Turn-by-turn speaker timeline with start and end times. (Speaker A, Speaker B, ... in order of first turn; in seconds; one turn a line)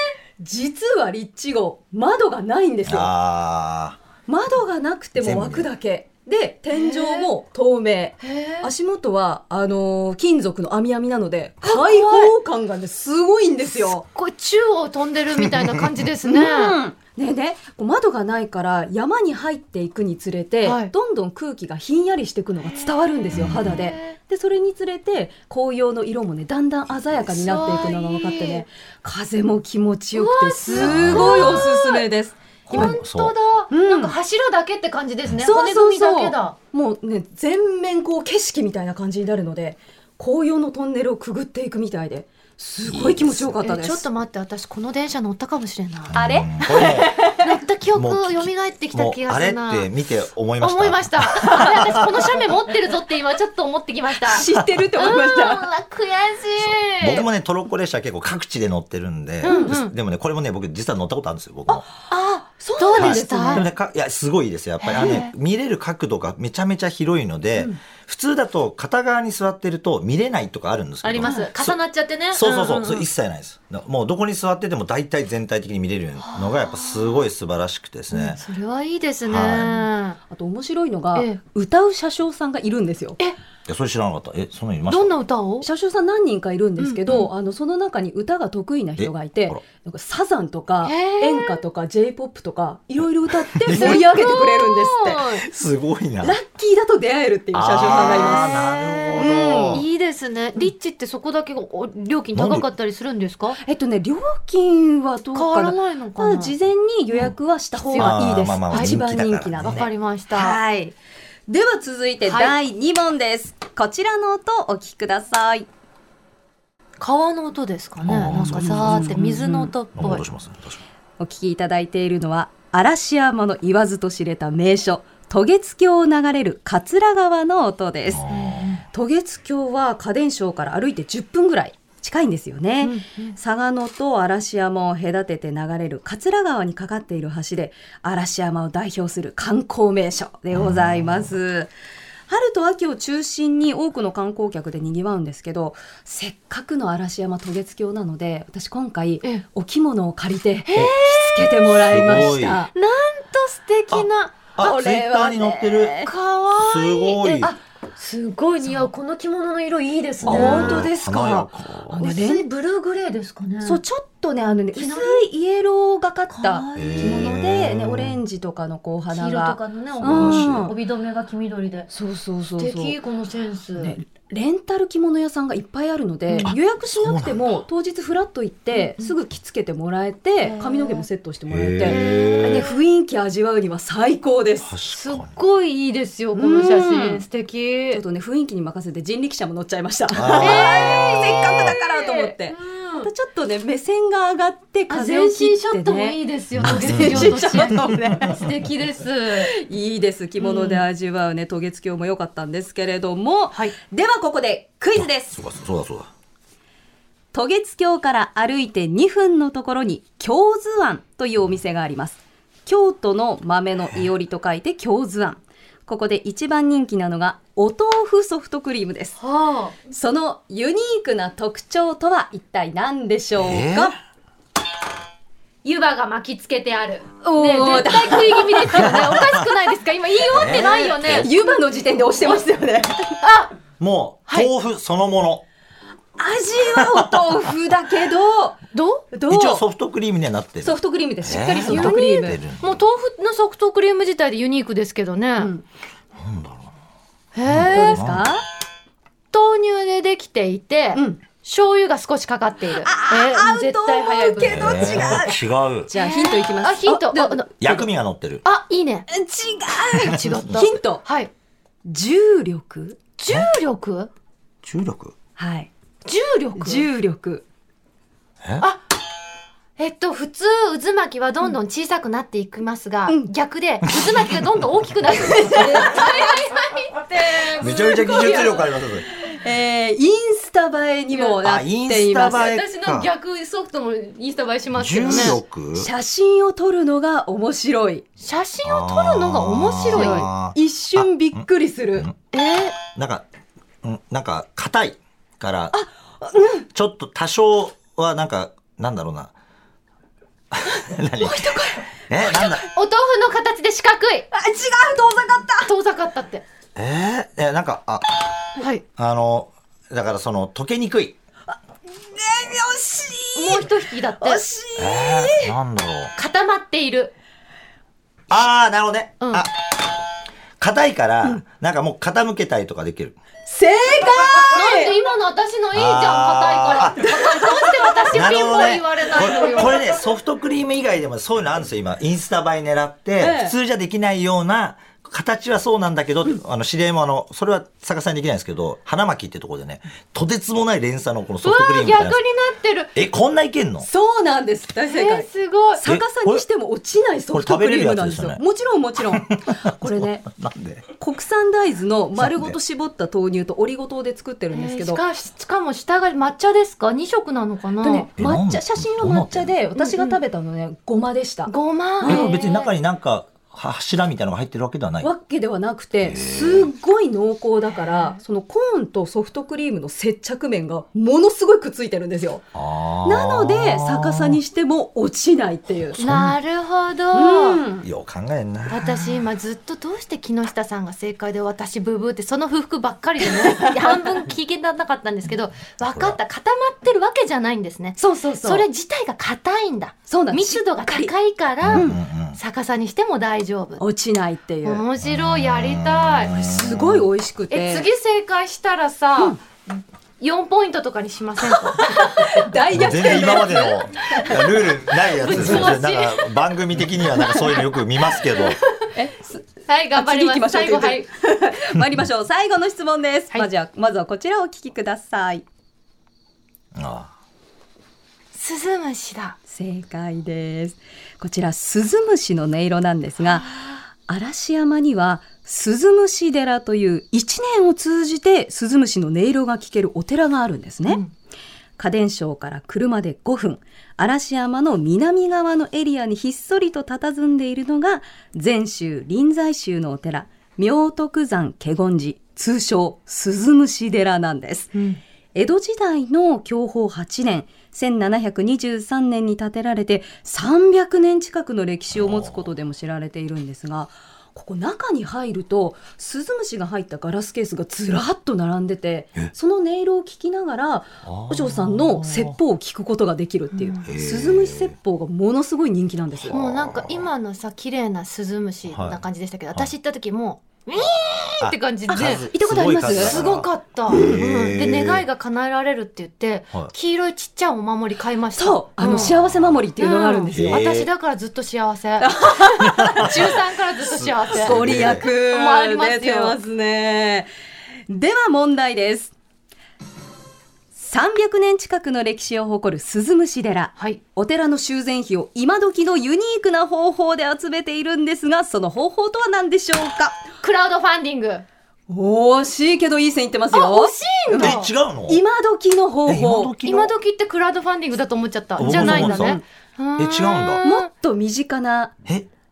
Speaker A: 0.4-3.1
Speaker B: 2.9-4.0
Speaker A: 4.3-14.1
Speaker B: 5.2-5.7
Speaker C: 6.7-7.3
Speaker C: 8.2-8.7
Speaker C: 11.6-12.3
Speaker C: 14.1-16.8
Speaker A: 16.2-33.0
Speaker C: 20.6-20.9
Speaker B: 23.3-23.8
Speaker C: 23.6-24.1
Speaker C: 27.3-28.6
Speaker C: 30.1-32.1
Speaker B: 30.7-31.7
Speaker C: 32.7-36.5
Speaker B: 32.7-33.4
Speaker A: 33.7-34.1
Speaker A: 35.4-44.0
Speaker B: 42.9-43.5
Speaker C: 43.6-49.9
Speaker B: 46.1-47.4
Speaker A: 46.1-47.4
Speaker B: 47.9-52.3
Speaker C: 50.6-57.3
Speaker A: 54.2-55.7
Speaker B: 56.6-61.9
Speaker C: 59.4-59.9
Speaker A: 59.4-59.8
Speaker A: 61.7-63.7
Speaker C: 62.1-63.6
Speaker B: 62.9-71.8
Speaker C: 64.9-65.3
Speaker A: 64.9-65.3
Speaker C: 71.0-73.0
Speaker A: 71.2-71.5
Speaker B: 72.3-78.4
Speaker C: 76.3-77.2
Speaker C: 78.1-80.2
Speaker B: 79.2-79.8
Speaker A: 80.3-83.2
Speaker C: 81.1-81.4
Speaker B: 83.7-85.1
Speaker C: 84.9-85.7
Speaker A: 85.6-95.3
Speaker C: 86.8-87.3
Speaker B: 89.0-89.6
Speaker C: 90.8-91.6
Speaker B: 93.5-94.1
Speaker C: 93.7-95.4
Speaker B: 95.3-96.4
Speaker A: 96.2-98.6
Speaker B: 97.5-99.9
Speaker C: 97.8-103.6
Speaker A: 99.2-99.8
Speaker B: 102.3-102.7
Speaker A: 103.6-110.9
Speaker C: 105.3-106.5
Speaker C: 107.8-108.9
Speaker B: 108.0-109.9
Speaker C: 109.6-110.6
Speaker A: 111.5-115.7
Speaker C: 112.2-112.5
Speaker C: 117.0-120.2
Speaker B: 118.0-119.2
Speaker A: 118.3-119.7
Speaker B: 119.9-120.8
Speaker A: 121.2-128.3
Speaker B: 128.1-128.8
Speaker C: 128.3-128.8
Speaker A: 128.9-141.7
Speaker C: 132.8-133.3
Speaker B: 140.5-141.3
Speaker A: 142.3-152.7
Speaker C: 150.7-154.4
Speaker B: 151.8-152.6
Speaker B: 153.9-156.0
Speaker A: 154.6-156.1
Speaker C: 156.0-160.9
Speaker B: 156.6-157.5
Speaker B: 160.2-162.0
Speaker A: 160.2-162.5
Speaker C: 162.0-163.8
Speaker A: 163.6-170.8
Speaker C: 164.8-165.3
Speaker C: 166.3-167.4
Speaker B: 166.8-168.2
Speaker C: 169.1-171.9
Speaker B: 169.9-170.7
Speaker A: 171.9-173.0
Speaker C: 172.6-173.9
Speaker A: 173.8-184.8
Speaker C: 176.3-176.5
Speaker B: 176.4-177.6
Speaker C: 178.8-179.1
Speaker C: 180.4-181.0
Speaker B: 181.5-182.7
Speaker C: 181.8-182.8
Speaker B: 184.7-185.3
Speaker C: 184.9-188.0
Speaker A: 186.3-187.2
Speaker A: 187.9-198.5
Speaker B: 190.1-191.8
Speaker C: 190.4-193.1
Speaker C: 194.9-199.5
Speaker B: 196.6-197.9
Speaker A: 199.4-205.4
Speaker C: 200.4-200.9
Speaker B: 204.9-206.1
Speaker A: 207.3-219.2
Speaker C: 219.2-219.8
Speaker A: 219.9-224.0
Speaker B: 223.4-223.9
Speaker C: 225.6-231.6
Speaker A: 227.2-229.1
Speaker B: 229.0-229.4
Speaker B: 230.3-231.3
Speaker A: 230.5-233.2
Speaker C: 233.2-233.5
Speaker B: 233.8-235.4
Speaker A: 236.2-238.6
Speaker C: 238.7-239.0
Speaker A: 239.1-239.6
Speaker B: 239.3-242.8
Speaker A: 240.6-242.4
Speaker C: 241.6-245.5
Speaker A: 245.4-245.6
Speaker B: 246.2-246.7
Speaker C: 247.3-248.0
Speaker B: 247.4-248.2
Speaker A: 247.7-248.4
Speaker C: 249.3-255.3
Speaker A: 250.9-251.2
Speaker A: 252.8-257.8
Speaker B: 254.4-255.9
Speaker C: 255.9-257.7
Speaker B: 257.6-258.4
Speaker C: 258.4-259.1
Speaker A: 259.1-261.0
Speaker C: 260.0-261.3
Speaker B: 260.2-260.6
Speaker A: 261.9-263.0
Speaker C: 263.2-264.1
Speaker B: 264.6-265.1
Speaker A: 265.4-265.7
Speaker C: 266.0-266.9
Speaker A: 266.6-267.4
Speaker B: 268.4-268.7
Speaker C: 269.8-278.7
Speaker A: 275.5-276.2
Speaker B: 277.6-279.0
Speaker A: 279.2-282.4
Speaker C: 281.1-281.4
Speaker B: 281.4-283.1
Speaker C: 282.2-285.4
Speaker B: 284.8-285.9
Speaker A: 285.1-288.0
Speaker C: 288.2-290.3
Speaker B: 288.6-291.4
Speaker A: 289.9-292.1
Speaker C: 292.3-292.8
Speaker B: 292.9-293.3
Speaker B: 293.8-295.8
Speaker A: 295.7-296.6
Speaker B: 296.7-299.3
Speaker B: 300.5-302.6
Speaker A: 301.2-302.5
Speaker C: 302.7-304.3
Speaker A: 304.3-305.7
Speaker C: 305.6-306.4
Speaker B: 306.8-308.1
Speaker C: 308.6-308.8
Speaker B: 308.9-311.2
Speaker A: 311.5-315.5
Speaker C: 313.4-314.4
Speaker B: 314.8-316.1
Speaker C: 316.1-317.1
Speaker B: 318.3-319.6
Speaker B: 320.6-323.2
Speaker A: 323.4-324.9
Speaker C: 324.5-329.9
Speaker B: 325.7-327.1
Speaker A: 327.0-328.2
Speaker B: 328.1-342.2
Speaker A: 333.2-333.5
Speaker C: 341.4-342.9
Speaker B: 342.9-343.9
Speaker A: 343.8-350.2
Speaker C: 344.9-345.8
Speaker B: 345.8-346.4
Speaker B: 347.3-348.4
Speaker B: 349.1-350.9
Speaker A: 351.0-355.0
Speaker B: 352.2-352.5
Speaker C: 354.5-358.1
Speaker A: 357.8-362.3
Speaker B: 358.2-359.5
Speaker C: 359.8-360.2
Speaker C: 361.5-362.7
Speaker B: 362.0-365.1
Speaker A: 365.0-372.4
Speaker B: 366.0-366.7
Speaker B: 372.5-374.4
Speaker A: 373.0-376.0
Speaker B: 375.9-376.4
Speaker C: 375.9-377.6
Speaker A: 377.1-377.9
Speaker B: 377.8-379.2
Speaker C: 378.7-393.8
Speaker A: 383.4-384.0
Speaker B: 385.9-386.2
Speaker A: 388.0-388.6
Speaker A: 390.1-391.1
Speaker B: 391.6-392.4
Speaker A: 391.7-392.0
Speaker A: 393.8-394.8
Speaker C: 394.6-396.5
Speaker B: 395.0-397.1
Speaker A: 396.4-397.9
Speaker C: 397.5-402.4
Speaker A: 401.4-404.4
Speaker B: 402.7-408.6
Speaker C: 405.0-406.3
Speaker A: 405.2-405.8
Speaker A: 408.9-415.4
Speaker C: 409.7-411.1
Speaker B: 416.8-417.1
Speaker C: 418.3-419.4
Speaker A: 419.5-431.0
Speaker A: 431.8-444.8
Speaker A: 445.3-466.4
Speaker B: 451.9-452.5
Speaker B: 461.0-462.4
Speaker C: 463.5-463.8
Speaker B: 463.8-464.7
Speaker B: 466.2-467.1
Speaker C: 466.3-472.2
Speaker B: 468.7-469.0
Speaker B: 470.8-475.1
Speaker A: 471.9-473.2
Speaker C: 472.9-479.1
Speaker A: 478.3-480.6
Speaker B: 478.8-479.6
Speaker C: 479.8-486.4
Speaker B: 480.3-480.9
Speaker A: 482.0-483.3
Speaker B: 482.7-485.0
Speaker A: 484.3-487.3
Speaker A: 487.9-489.1
Speaker A: 490.8-500.2
Speaker C: 500.4-501.4
Speaker A: 501.9-506.5
Speaker C: 503.5-504.7
Speaker B: 504.3-505.2
Speaker B: 506.1-506.9
Speaker C: 506.6-510.9
Speaker B: 508.6-509.4
Speaker A: 508.6-509.4
Speaker B: 510.0-510.6
Speaker A: 510.6-511.9